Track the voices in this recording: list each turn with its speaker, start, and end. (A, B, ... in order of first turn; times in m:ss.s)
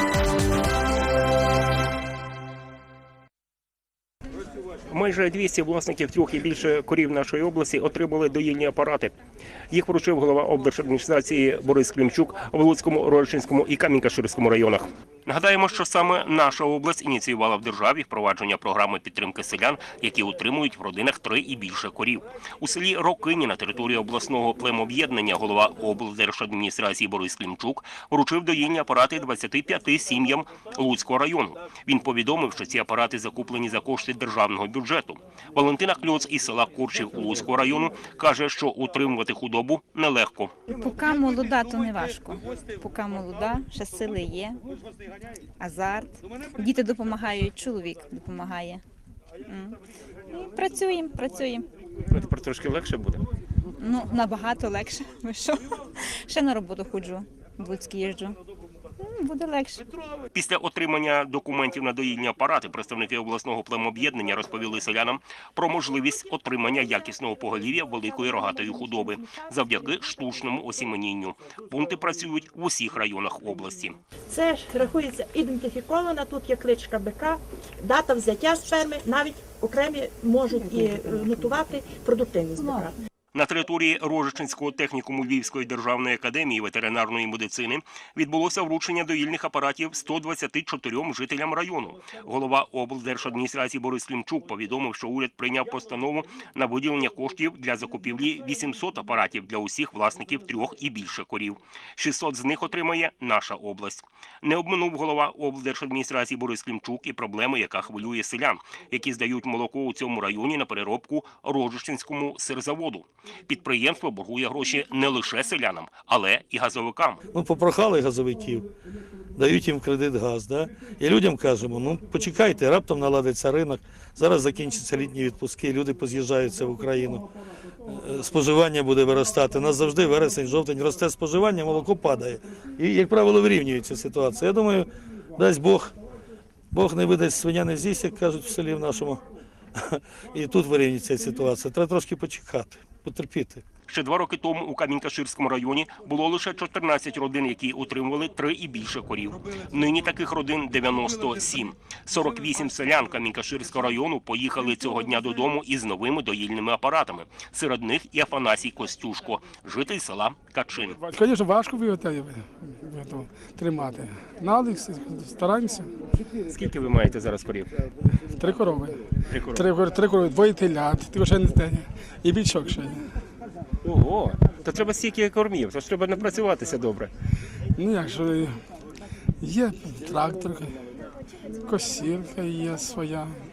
0:04.9-0:09.2 A
0:09.7-0:40.6 A
0:40.7-0:44.6 B
0:45.6-0:48.8 B
0:49.4-0:49.8 B
0:50.3-0:51.6 B
0:52.1-0:53.2 A
0:53.8-0:58.4 B
0:59.0-0:59.9 B
1:00.3-1:14.0 A
1:14.3-1:23.0 C
1:23.3-1:57.2 A
1:57.3-1:58.7 D
1:59.4-2:07.3 D
2:07.8-2:15.9 D
2:16.7-2:19.2 D
2:19.8-2:23.6 D
2:23.9-2:41.0 A
2:41.0-2:45.9 E
2:46.5-2:47.7 A
2:48.3-2:49.0 E
2:49.3-2:49.7 A
2:49.5-2:53.1 E
2:53.8-2:57.1 A
2:57.8-2:58.6 E
2:59.4-3:00.8 E
3:01.6-3:03.4 E